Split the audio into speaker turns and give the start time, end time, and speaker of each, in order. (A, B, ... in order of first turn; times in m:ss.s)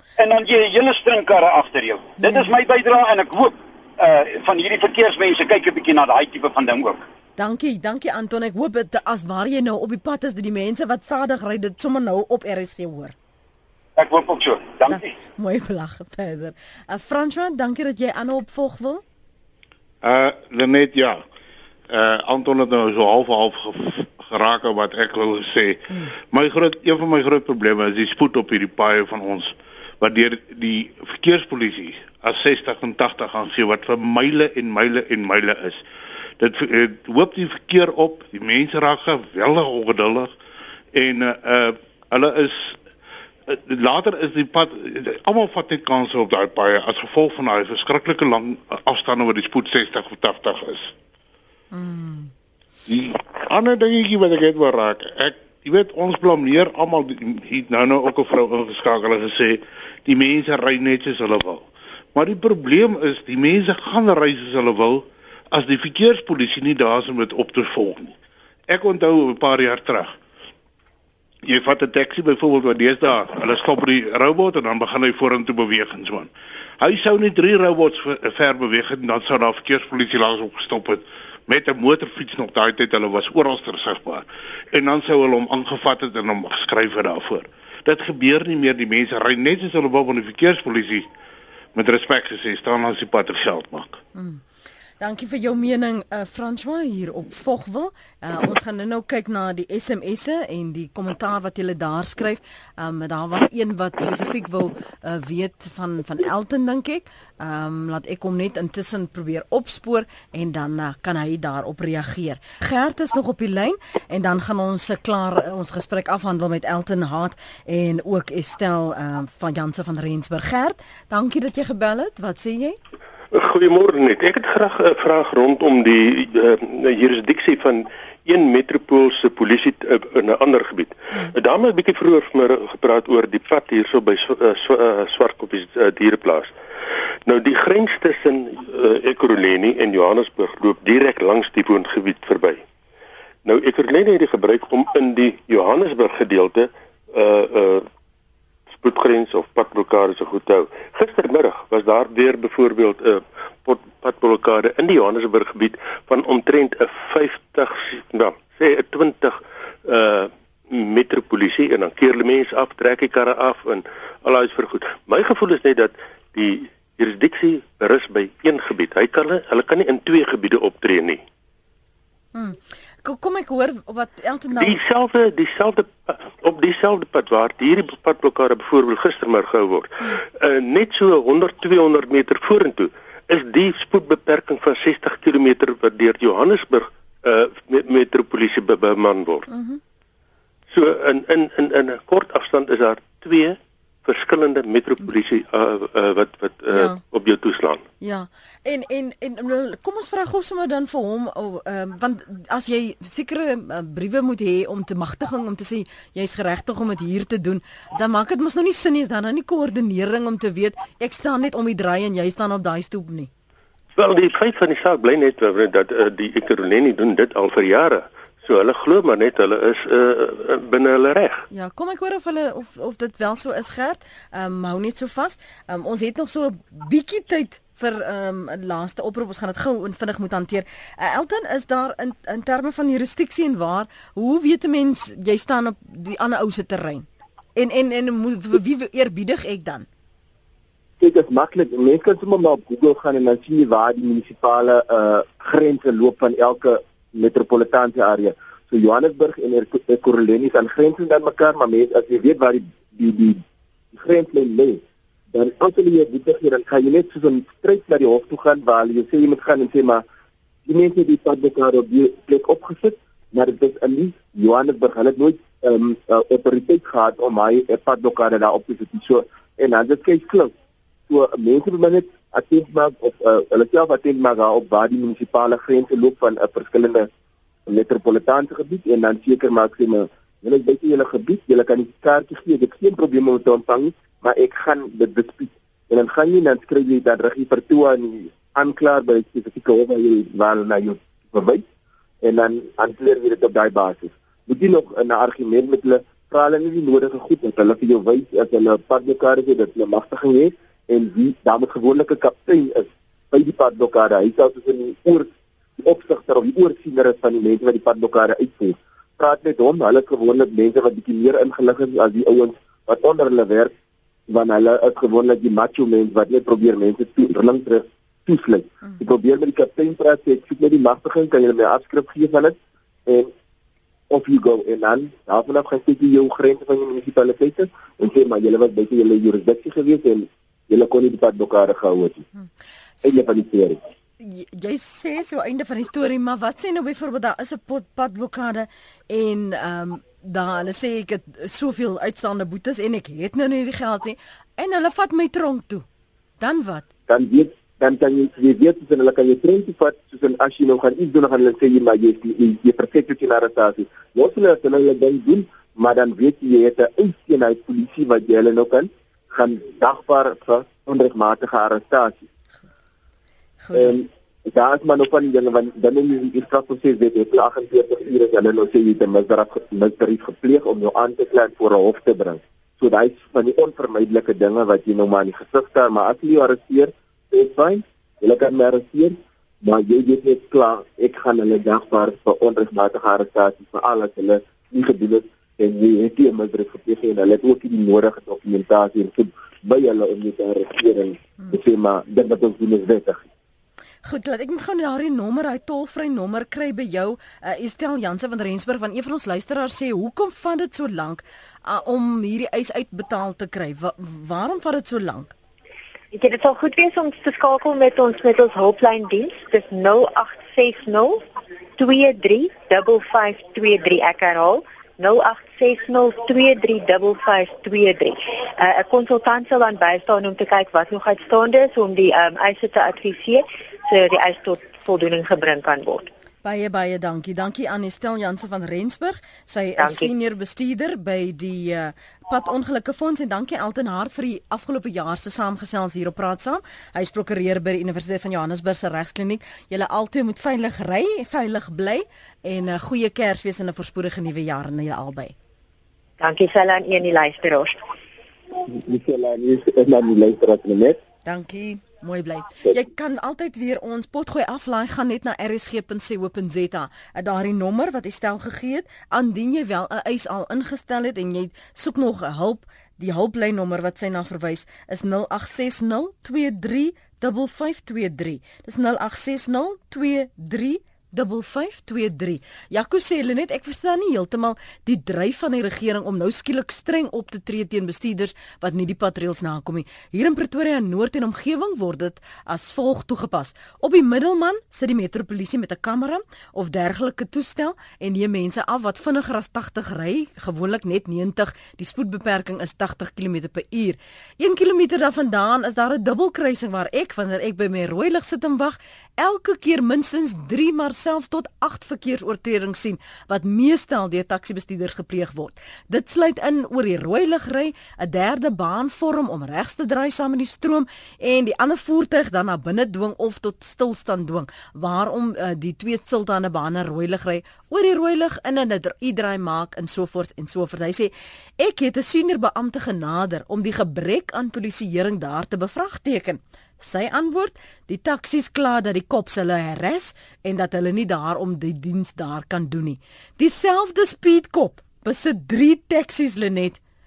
0:00.2-0:07.0 A
0:02.2-0:02.5 B
0:07.4-0:13.1 B
0:14.0-0:15.1 A
0:14.9-0:19.0 B
0:20.0-0:21.2 C
0:21.9-0:35.8 C
0:36.4-0:40.3 C
0:40.9-0:42.8 C
0:43.5-0:50.9 C
0:51.7-0:52.3 B
0:52.9-1:08.2 C
1:08.7-1:10.2 C
1:11.4-1:31.1 C
1:31.7-1:34.0 C
1:34.1-1:34.4 B
1:35.0-2:02.8 B
2:03.3-2:16.5 D
2:17.2-2:22.6 D
2:23.4-2:27.8 D
2:28.7-2:51.2 D
2:52.3-2:54.8 B
2:54.6-3:09.5 D
3:09.5-3:09.8 B
3:10.7-3:17.8 D
3:16.7-3:17.0 B
3:18.0-3:33.3 B
3:34.0-3:41.4 D
3:41.5-3:59.8 B
4:01.0-4:14.8 E
4:15.3-4:20.0 E
4:20.6-4:30.5 E
4:31.1-4:37.1 E
4:37.7-4:51.6 E
4:52.2-5:13.7 E
5:14.3-5:23.3 E
5:24.1-5:32.2 E
5:33.0-5:33.8 E
5:34.2-5:45.8 B
5:46.4-5:46.9 B
5:47.1-6:02.2 E
6:03.6-6:03.9 B
6:03.7-6:33.2 E
6:34.0-6:45.3 B
6:46.1-6:51.2 F
6:51.8-7:06.1 F
7:06.4-7:25.3 B
7:09.8-7:10.1 F
7:26.2-7:27.8 F
7:28.6-7:31.0 E
7:31.2-8:56.8 B